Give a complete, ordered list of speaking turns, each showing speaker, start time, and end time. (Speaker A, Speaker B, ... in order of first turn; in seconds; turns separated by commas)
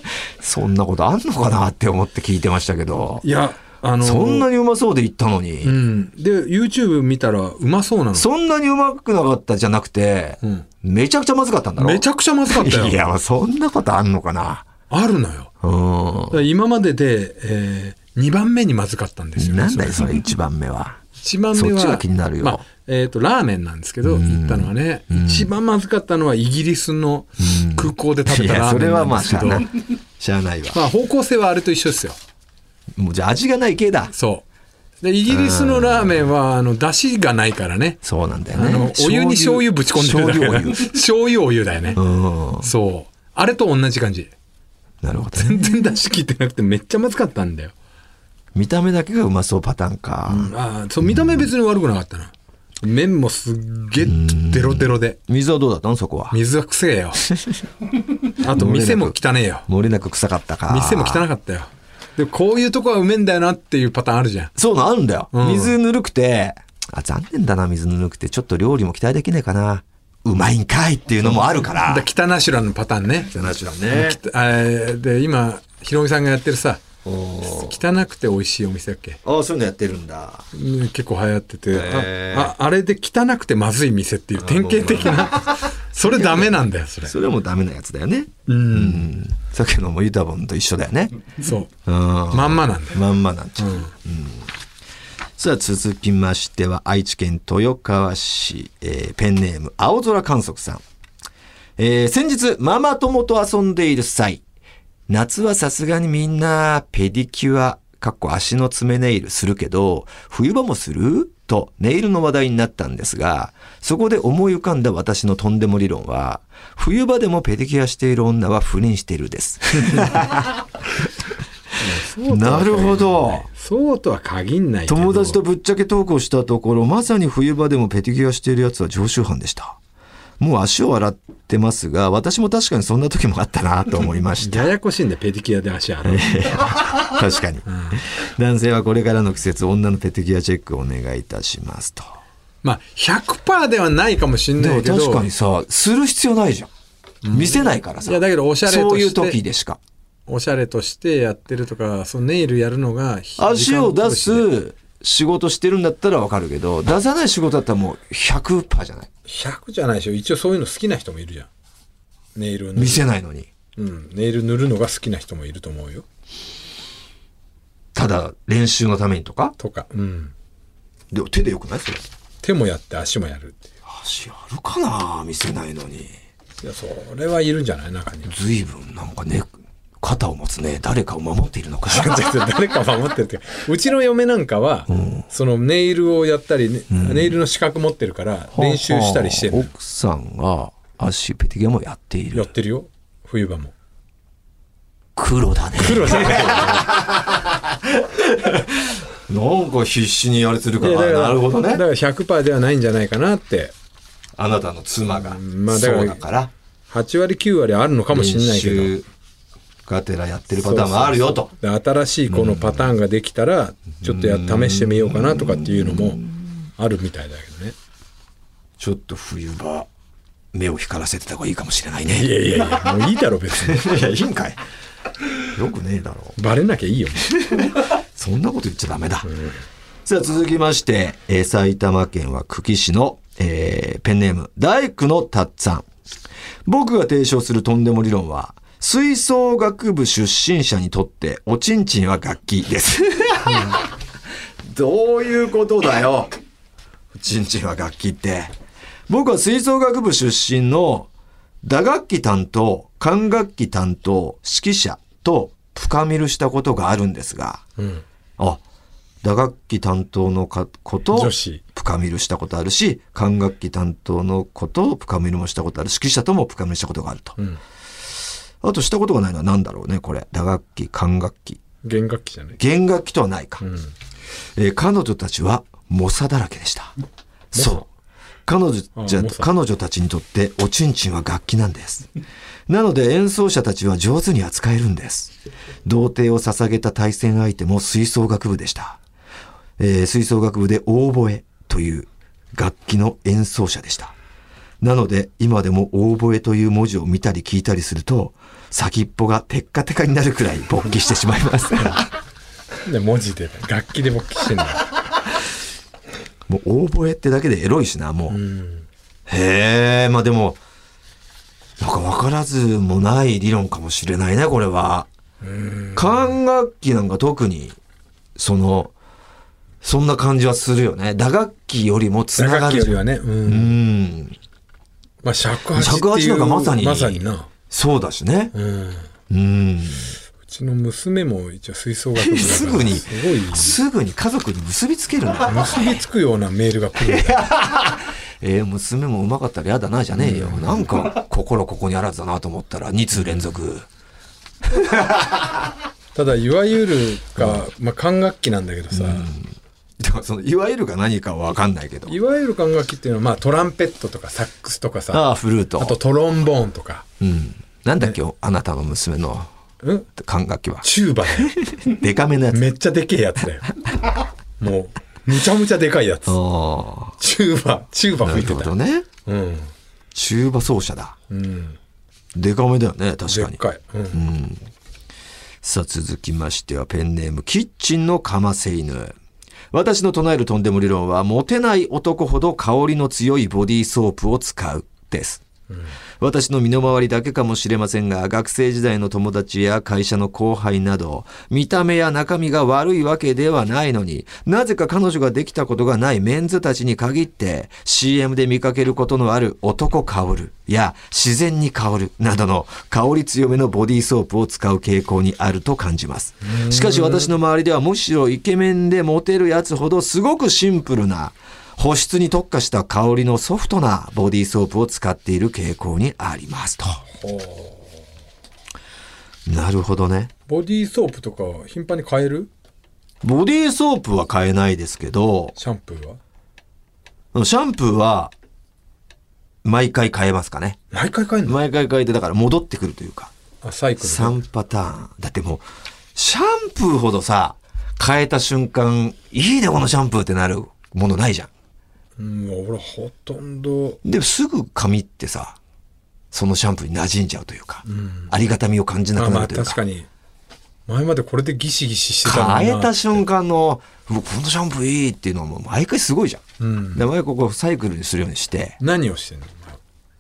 Speaker A: 0.4-3.2, Speaker B: 3.2-4.5, Speaker A: 4.0-5.8, Speaker B: 5.6-8.3, Speaker A: 8.1-14.7, Speaker B: 11.8-13.0, Speaker B: 14.9-15.5, Speaker A: 15.6-16.4, Speaker B: 16.3-20.2, Speaker A: 19.4-21.0, Speaker B: 21.2-29.7, Speaker A: 21.6-22.6, Speaker A: 24.0-25.5, Speaker A: 27.4-30.8, Speaker B: 30.7-32.2, Speaker A: 33.0-34.1, Speaker B: 34.1-34.5, Speaker B: 35.0-38.0, Speaker A: 35.3-36.3, Speaker A: 38.0-41.0, Speaker B: 38.5-42.0, Speaker A: 42.0-42.7, Speaker B: 42.6-44.3, Speaker A: 45.0-45.7, Speaker B: 45.3-47.7, Speaker A: 48.5-50.5, Speaker B: 50.3-55.2, Speaker A: 51.1-51.5, Speaker A: 54.0-56.4, Speaker B: 56.3-57.2, Speaker A: 57.3-57.6, Speaker B: 58.4-59.7, Speaker A: 58.5-61.2, Speaker B: 60.7-64.5, Speaker A: 64.6-72.1, Speaker B: 65.3-65.8, Speaker B: 71.2-73.3, Speaker A: 73.3-74.2, Speaker B: 73.9-76.8, Speaker A: 77.0-77.8, Speaker B: 77.4-79.2, Speaker A: 79.2-80.5, Speaker B: 80.5-87.2, Speaker A: 81.7-82.5, Speaker A: 84.4-86.5, Speaker A: 87.0-91.3, Speaker B: 88.5-89.1, Speaker B: 91.4-91.7, Speaker A: 91.8-94.5, Speaker B: 92.3-93.0, Speaker B: 93.6-93.9, Speaker A: 95.4-100.8, Speaker A: 101.8-104.4, Speaker A: 105.1-120.6, Speaker B: 121.8-125.4, Speaker A: 122.3-123.5, Speaker A: 124.9-129.8, Speaker A: 130.4-134.7, Speaker B: 134.4-136.6, Speaker A: 136.0-142.2, Speaker B: 137.7-138.0, Speaker B: 142.6-145.3, Speaker A: 144.6-146.7, Speaker B: 147.2-149.4, Speaker A: 147.3-149.8, Speaker B: 150.3-154.5, Speaker A: 153.4-159.1, Speaker B: 159.3-161.5, Speaker B: 162.3-163.0, Speaker A: 162.8-163.5, Speaker B: 163.8-166.1, Speaker A: 167.9-169.6, Speaker B: 169.6-170.3, Speaker A: 171.1-172.0, Speaker B: 172.4-173.7, Speaker A: 173.9-176.2, Speaker B: 176.6-178.3, Speaker A: 178.3-182.3, Speaker B: 181.9-189.7, Speaker A: 184.9-185.3, Speaker A: 186.9-187.3, Speaker A: 188.5-192.5, Speaker B: 192.3-193.7, Speaker A: 195.2-201.8, Speaker B: 195.8-196.9, Speaker B: 200.8-203.7, Speaker A: 204.4-206.5, Speaker B: 205.1-206.2, Speaker B: 206.9-208.9, Speaker A: 208.1-209.1, Speaker A: 209.9-211.5, Speaker B: 210.6-216.2, Speaker A: 212.3-212.9, Speaker A: 214.0-216.3, Speaker B: 216.8-217.8, Speaker A: 218.8-219.9, Speaker A: 220.5-222.9, Speaker B: 222.1-223.9, Speaker A: 223.6-224.6, Speaker A: 225.4-226.4, Speaker B: 226.4-227.3, Speaker A: 227.3-229.3, Speaker B: 229.2-229.6, Speaker A: 230.1-235.9, Speaker A: 236.7-243.9, Speaker A: 244.7-246.3, Speaker A: 247.1-248.5, Speaker A: 249.1-251.1, Speaker A: 251.6-257.6, Speaker B: 257.8-258.0, Speaker A: 259.2-267.4, Speaker B: 261.1-261.6, Speaker A: 268.6-271.6, Speaker B: 271.8-272.6, Speaker A: 272.6-273.6, Speaker B: 273.6-273.9, Speaker A: 274.6-276.9, Speaker B: 277.5-277.9, Speaker A: 277.5-277.8, Speaker A: 278.5-282.1, Speaker B: 279.0-279.5, Speaker A: 282.7-285.3, Speaker A: 285.9-289.0, Speaker A: 289.8-294.1, Speaker A: 294.8-302.1, Speaker B: 302.9-304.9, Speaker A: 306.5-308.4, Speaker B: 308.3-308.9, Speaker A: 309.3-310.6, Speaker A: 311.8-315.1, Speaker B: 315.4-316.3, Speaker A: 315.9-317.8, Speaker A: 318.4-318.9, Speaker A: 319.8-324.4, Speaker B: 322.4-323.8, Speaker B: 325.2-327.5, Speaker A: 325.7-328.5, Speaker B: 328.5-329.1, Speaker A: 329.3-330.2, Speaker B: 330.5-333.8, Speaker A: 332.2-335.9, Speaker B: 335.4-337.4, Speaker A: 337.0-343.9, Speaker B: 340.1-340.9, Speaker A: 344.7-345.6, Speaker B: 346.1-349.3, Speaker A: 348.9-352.1, Speaker B: 352.1-355.2, Speaker A: 355.1-356.0, Speaker B: 355.8-357.1, Speaker A: 357.2-359.5, Speaker B: 359.8-360.1, Speaker A: 360.2-362.7, Speaker B: 360.8-361.5, Speaker B: 362.5-363.6, Speaker B: 364.6-366.4, Speaker A: 366.3-367.2, Speaker B: 367.2-368.7, Speaker A: 368.2-369.1, Speaker B: 369.2-369.7, Speaker A: 370.1-371.2, Speaker B: 371.3-371.8, Speaker A: 372.4-373.6, Speaker B: 373.3-374.2, Speaker A: 374.1-374.7, Speaker A: 375.6-379.2, Speaker A: 379.7-385.4, Speaker A: 386.2-417.0, Speaker B: 406.4-407.3, Speaker B: 417.1-418.0, Speaker A: 419.5-420.3, Speaker B: 420.5-422.5, Speaker A: 423.2-425.6, Speaker B: 425.6-426.2, Speaker A: 427.3-428.3, Speaker A: 429.6-430.8, Speaker B: 430.9-431.6, Speaker A: 431.5-433.3, Speaker B: 433.6-434.4, Speaker A: 434.0-441.5, Speaker B: 442.2-444.0, Speaker A: 444.0-445.6, Speaker A: 446.3-449.8, Speaker B: 447.9-448.3, Speaker B: 449.2-450.1, Speaker B: 450.9-453.2, Speaker A: 452.2-456.4, Speaker B: 456.6-457.0, Speaker A: 456.9-458.8, Speaker B: 458.8-459.8